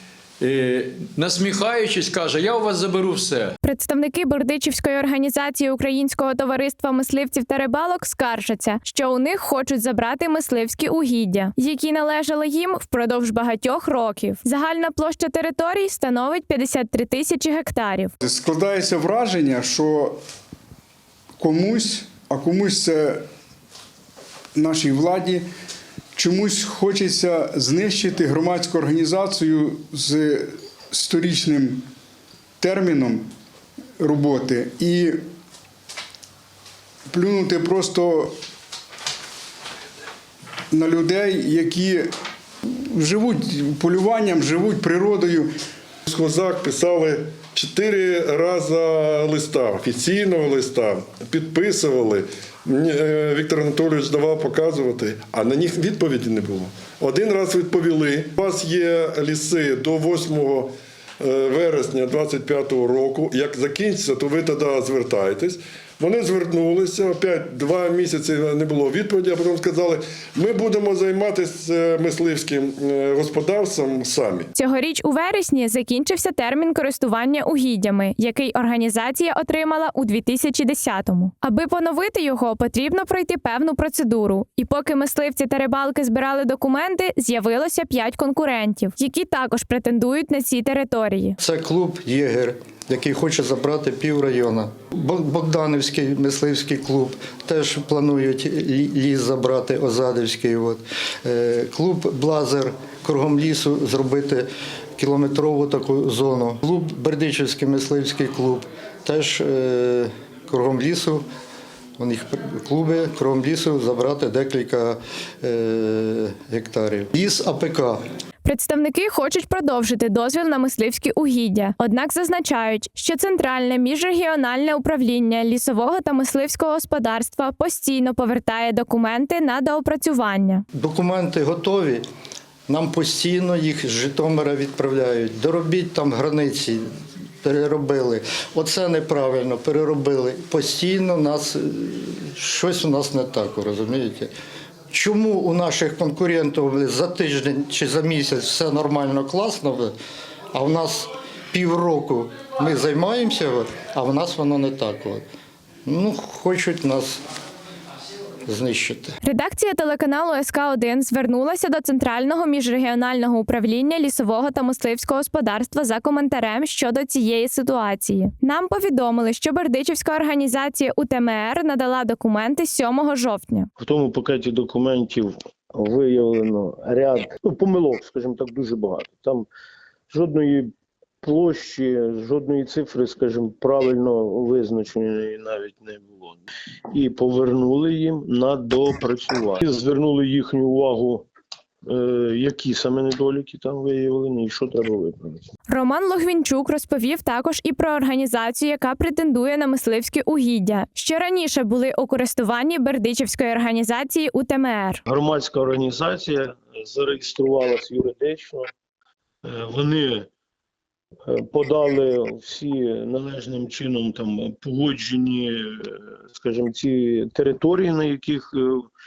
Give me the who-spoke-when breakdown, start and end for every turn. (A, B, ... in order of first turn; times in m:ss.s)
0:00.4-0:03.5 A
0:03.6-0:18.1 B
0:18.2-0:20.2 C
0:21.4-0:23.2 C
0:24.5-0:25.4 C
0:26.1-0:31.8 C
0:32.6-0:33.3 C
0:34.0-0:35.2 C
0:37.1-0:38.3 C
0:40.7-0:42.1 C
0:42.6-0:45.5 C
0:46.0-1:14.5 D
1:14.5-1:31.4 B
1:31.4-1:51.2 E
1:52.0-1:58.0 E
1:58.4-2:10.6 B
2:10.7-2:12.0 E
2:12.7-2:16.8 E
2:17.4-2:24.3 E
2:24.9-2:29.9 E
2:30.5-2:35.2 E
2:35.8-2:37.2 E
2:38.4-2:39.1 E
2:39.2-2:53.7 B
2:53.8-2:59.5 F
3:00.1-3:00.7 F
3:01.2-3:11.3 F
3:11.8-3:15.4 F
3:15.7-3:25.0 B
3:25.1-3:28.7 F
3:29.4-3:30.3 F
3:31.3-3:38.8 F